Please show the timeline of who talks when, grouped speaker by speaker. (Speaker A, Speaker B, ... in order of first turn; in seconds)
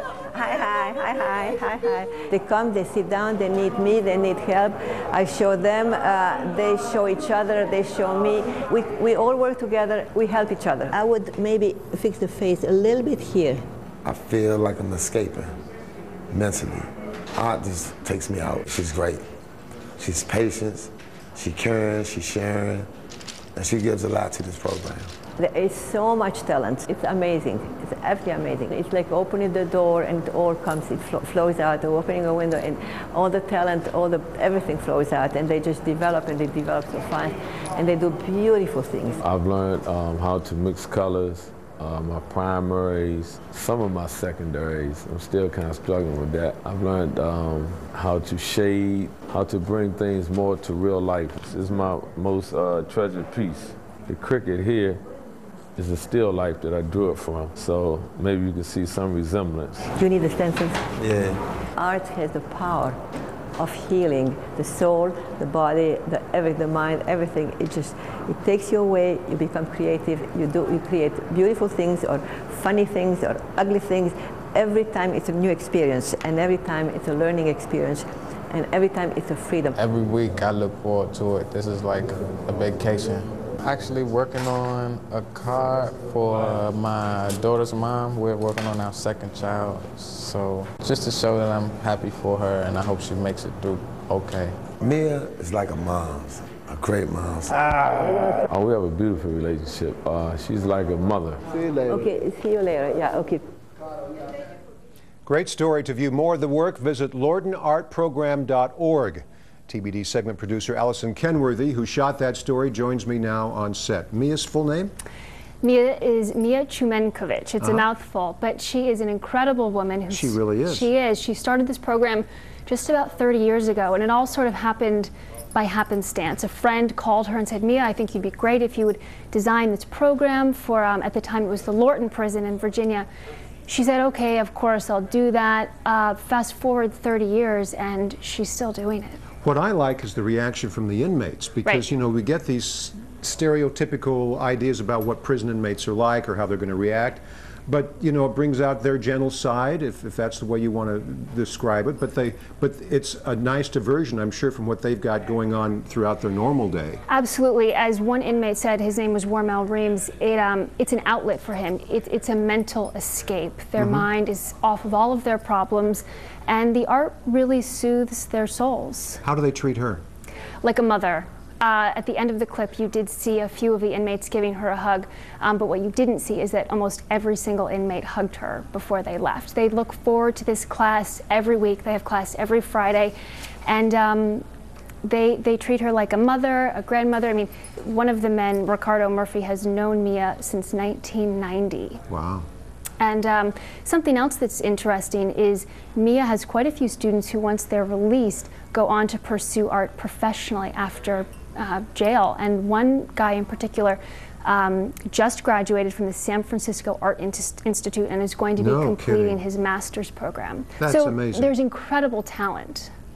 Speaker A: 0.3-13.7, 25.4-39.2, 60.0-61.1, 61.7-63.0, 63.6-79.8, 101.9-103.5
Speaker B: 14.0-15.5, 16.3-19.2, 20.0-22.9, 23.6-25.1, 94.8-98.1
Speaker C: 39.2-55.0, 55.8-59.9, 98.5-101.4
Speaker D: 79.8-94.6
Speaker E: 105.3-114.9, 117.6-117.9, 120.1-120.9, 139.4-157.0, 163.8-164.1, 169.2-170.0, 192.1-192.5, 208.6-209.4, 210.8-211.5
Speaker F: 115.6-133.1, 133.7-139.3, 157.1-169.3, 170.6-184.4, 185.0-192.0, 193.0-212.9